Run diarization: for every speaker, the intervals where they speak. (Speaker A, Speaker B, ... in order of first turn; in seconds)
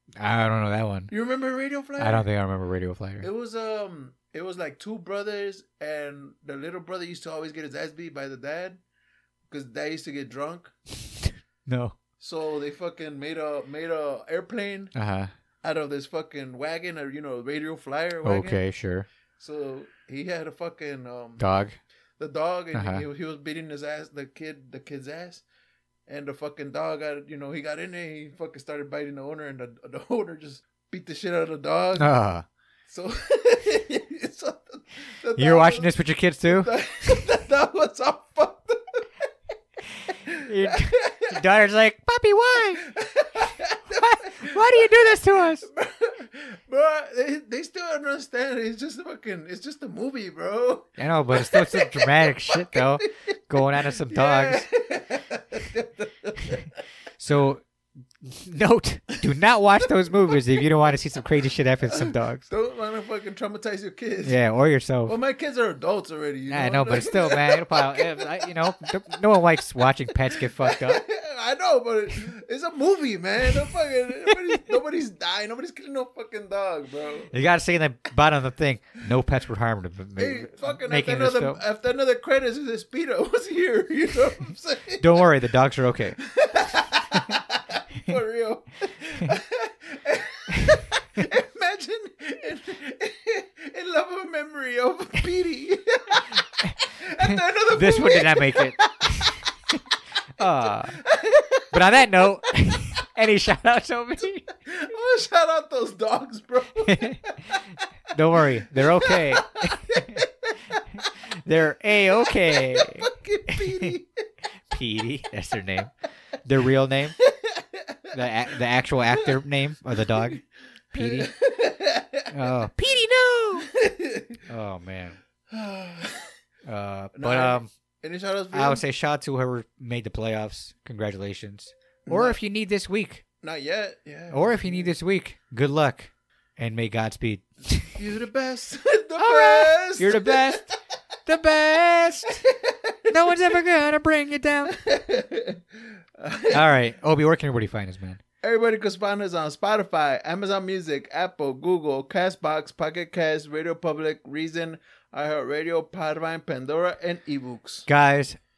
Speaker A: 0.2-1.1, 2.0-3.3, 11.2-11.9, 14.9-15.3, 18.2-19.1, 21.4-21.8, 22.7-23.0, 31.9-32.5, 35.4-36.7, 40.3-42.9, 43.9-45.7, 51.0-54.7, 57.2-57.6, 58.2-62.4, 64.2-65.2, 66.5-71.0, 77.3-81.6, 85.0-86.2, 97.7-99.4, 100.4-101.0, 101.7-104.5, 106.8-107.6, 108.1-110.2, 111.4-113.9, 114.7-115.9, 116.4-117.2, 118.1-120.4, 120.9-121.3, 122.3-123.7, 124.5-125.2, 126.7-127.7, 128.5-133.2, 134.3-137.9, 139.2-140.7, 141.2-142.4, 143.1-144.8, 146.5-148.2, 157.9-158.4
Speaker B: 1.1-2.3, 3.2-8.8, 9.5-10.7, 12.2-14.9, 15.6-18.6, 19.4-21.4, 22.2-25.4, 26.1-32.1, 32.9-39.3, 40.1-41.4, 42.8-56.7, 61.9-64.3, 65.0-68.6, 70.3-77.3, 80.2-85.3, 86.2-99.1, 100.4-101.8, 104.7-107.4, 108.7-111.1, 112.1-114.1, 117.2-118.2, 120.0-120.4, 120.9-122.5, 123.6-124.4, 125.5-126.3, 127.1-128.8, 132.1-132.4, 133.4-134.9, 137.9-140.8, 142.4-143.3, 144.7-146.6, 148.4-157.9